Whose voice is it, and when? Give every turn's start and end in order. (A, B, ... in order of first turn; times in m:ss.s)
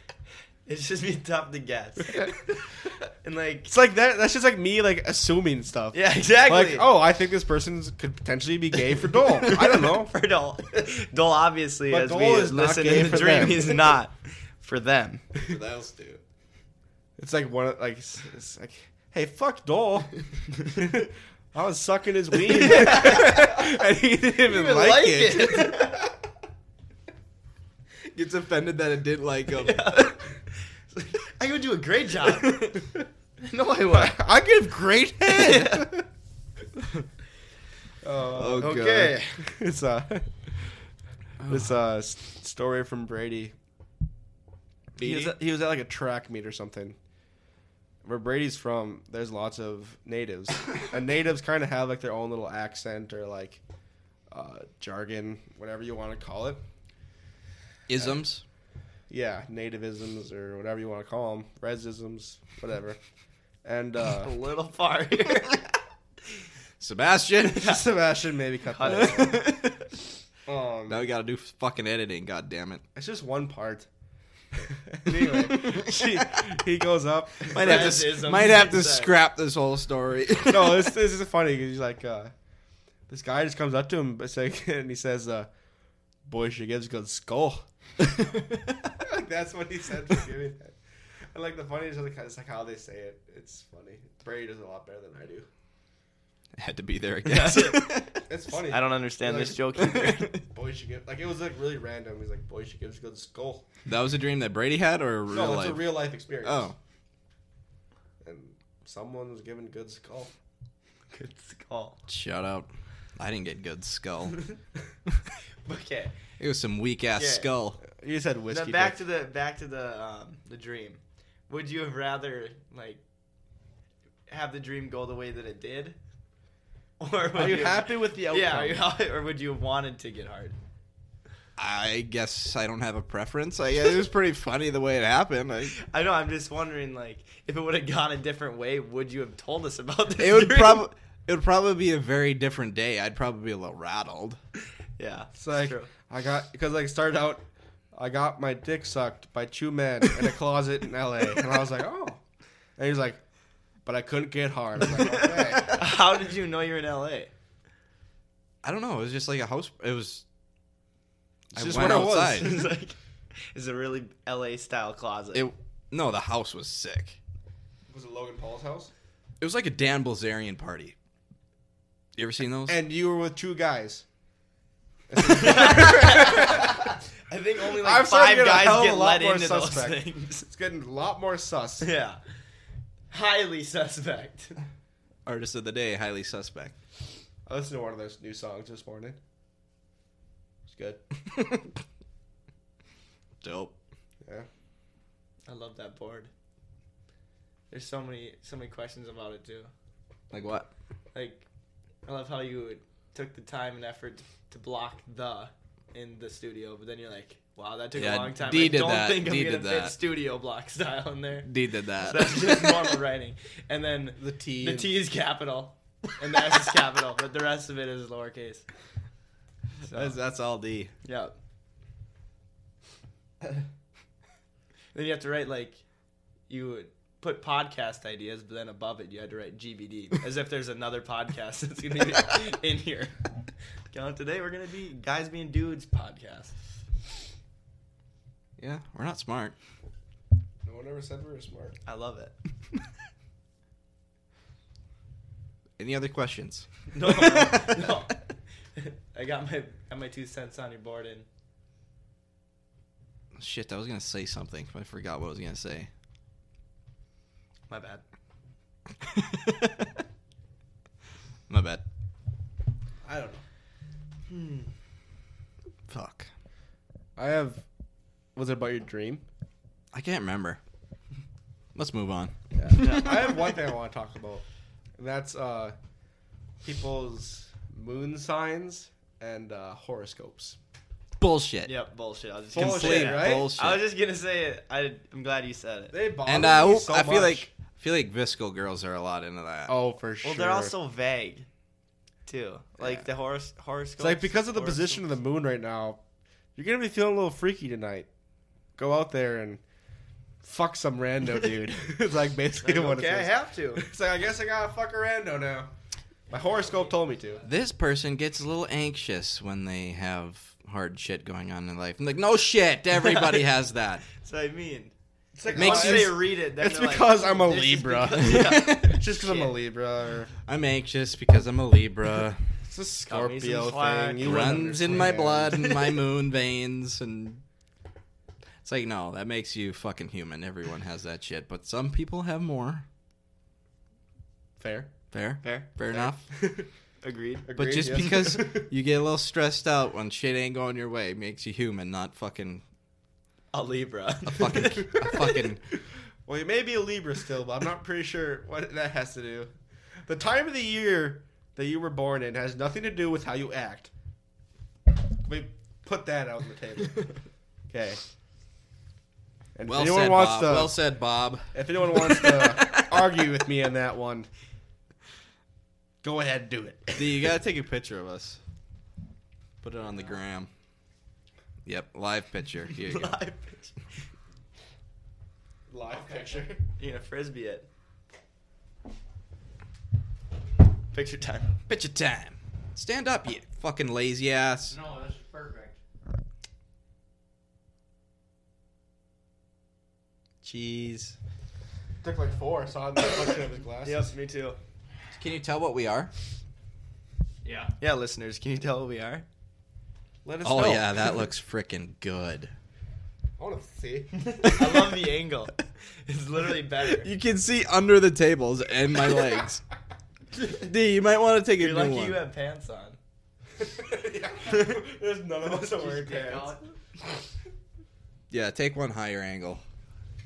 0:00.6-0:03.7 A
0:03.7-0:10.1 B
0:05.9-0:06.9 A
0:09.5-0:15.2 A
0:11.9-0:13.9 B
0:15.4-0:16.2 C
0:17.2-0:25.9 B
0:22.5-0:23.7 A
0:24.4-0:26.1 A
0:28.1-0:29.9 C
0:29.5-0:32.7 A
0:33.4-0:34.2 A
0:33.9-0:36.0 B
0:35.3-0:35.9 A
0:38.0-0:40.7 B
0:38.4-0:39.2 C
0:38.6-0:39.4 A
0:41.4-0:41.7 C
0:41.5-0:43.5 B
0:45.0-0:47.0 B
0:45.0-0:45.4 A
0:48.0-0:53.6 B
0:54.3-0:56.6 B
0:57.9-0:58.4 C
0:59.1-1:03.0 B
1:03.6-1:04.3 B
1:04.2-1:05.6 A
1:06.8-1:07.8 C
1:07.6-1:09.4 B
1:08.7-1:09.5 A
1:08.9-1:09.9 C
1:10.5-1:11.0 B
1:10.9-1:12.8 C
1:12.9-1:13.9 B
1:14.6-1:18.1 B
1:15.3-1:16.4 C
1:17.5-1:19.1 A
1:17.5-1:20.9 C
1:20.4-1:22.3 B
1:23.1-1:25.5 B
1:26.2-1:27.6 B
1:29.0-1:30.8 B
1:31.3-1:35.5 B
1:36.6-1:38.1 C
1:37.2-1:38.0 A
1:38.3-1:43.6 B
1:38.7-1:40.3 A
1:39.8-1:40.4 C
1:43.9-1:46.8 C
1:45.3-1:46.7 B
1:48.2-1:50.3 B
1:51.1-1:52.0 A
1:52.1-1:54.4 C
1:55.6-1:56.1 A
1:56.4-1:57.8 C
1:57.2-1:57.5 A
1:57.9-1:59.0 B
1:58.5-2:03.0 A
2:04.3-2:06.0 A
2:07.0-2:10.6 A
2:07.3-2:08.9 B
2:11.6-2:15.8 C
2:15.8-2:20.8 A
2:20.2-2:24.4 C
2:25.0-2:25.9 A
2:25.3-2:32.2 B
2:32.8-2:33.2 B
2:33.8-2:35.8 B
2:35.0-2:37.3 A
2:38.6-2:40.2 C
2:41.5-2:42.6 B
2:41.5-2:42.6 C
2:42.2-2:42.9 A
2:43.5-2:45.5 A
2:45.3-2:47.2 C
2:47.9-2:48.9 B
2:49.4-2:50.9 C
2:52.2-2:52.8 C
2:52.7-2:54.0 B
2:55.1-2:56.9 B
2:55.2-3:00.5 A
2:57.8-3:01.9 B
3:01.8-3:02.2 A
3:03.1-3:04.6 A
3:05.2-3:06.7 C
3:07.4-3:09.2 B
3:10.6-3:11.0 B
3:13.4-3:13.7 C
3:14.2-3:14.5 B
3:15.4-3:16.3 A
3:17.7-3:19.7 A
3:20.3-3:20.7 C
3:21.1-3:21.4 A
3:22.0-3:38.6 A
3:28.0-3:30.0 C
3:31.4-3:32.9 C
3:34.2-3:34.8 C
3:39.8-3:40.1 A
3:39.9-3:40.9 C
3:41.0-3:41.3 A
3:44.9-3:45.8 A
3:46.5-3:53.1 A
3:53.9-3:56.5 A
3:58.6-3:59.5 C
4:00.6-4:01.8 B
4:01.8-4:02.3 A
4:05.8-4:07.8 C
4:06.9-4:08.2 A
4:08.7-4:11.3 A
4:13.3-4:15.9 C
4:17.7-4:18.0 A
4:19.0-4:19.8 C
4:21.5-4:21.8 C
4:23.0-4:23.4 B
4:24.3-4:24.6 A
4:25.9-4:26.3 C
4:27.2-4:27.6 B
4:28.3-4:29.2 B
4:29.9-4:30.6 C
4:31.7-4:33.0 C
4:32.5-4:34.4 B
4:32.8-4:33.1 A
4:35.0-4:35.8 B
4:36.6-4:40.6 B
4:41.2-4:41.8 C
4:41.6-4:46.0 A
4:42.5-4:43.5 B
4:42.5-4:43.8 C
4:45.9-4:47.5 B
4:46.2-4:49.8 C
4:49.7-4:50.7 B
4:50.2-4:51.4 A
4:52.2-4:55.0 A
4:54.0-4:56.0 B
4:56.6-4:58.1 B
4:58.8-4:59.6 B
5:00.4-5:05.7 B
5:02.6-5:03.8 A
5:06.3-5:07.4 B
5:07.4-5:14.0 C
5:14.2-5:14.9 A
5:15.3-5:20.3 B
5:15.5-5:19.5 A
5:15.6-5:16.2 C
5:18.2-5:18.9 C
5:20.4-5:22.4 C
5:22.6-5:25.6 B
5:23.1-5:26.0 A
5:24.2-5:27.4 C
5:28.6-5:32.8 C
5:34.6-5:34.9 B
5:35.1-5:36.2 C
5:35.4-5:35.7 A
5:35.9-5:36.7 B
5:37.0-5:37.5 A
5:37.4-5:38.7 B
5:37.6-5:42.6 C
5:43.5-5:45.4 A
5:44.3-5:45.6 C
5:46.2-5:49.5 B
5:50.0-5:53.9 B
5:55.2-5:57.1 B
5:57.7-5:58.0 B
5:59.5-6:00.8 B
5:59.7-6:01.5 C
6:01.5-6:04.3 B
6:06.0-6:07.3 B
6:06.9-6:08.4 C
6:09.6-6:10.5 C
6:11.6-6:13.2 C
6:12.7-6:13.8 A
6:15.7-6:16.6 B
6:15.9-6:16.4 D
6:16.8-6:17.7 A
6:20.9-6:21.5 A
6:21.7-6:24.8 C
6:24.7-6:25.8 D
6:30.4-6:31.2 C
6:32.0-6:34.1 B
6:33.8-6:34.6 A
6:35.1-6:36.1 C
6:37.4-6:37.7 D
6:37.8-6:39.2 A
6:40.2-6:41.2 B
6:40.4-6:42.5 C
6:43.4-6:44.1 B
6:44.2-6:47.1 A
6:46.9-6:49.6 C
6:50.4-6:52.2 C
6:51.6-6:53.0 A
6:53.6-6:56.6 B
6:55.6-6:56.6 A
6:58.3-6:59.6 C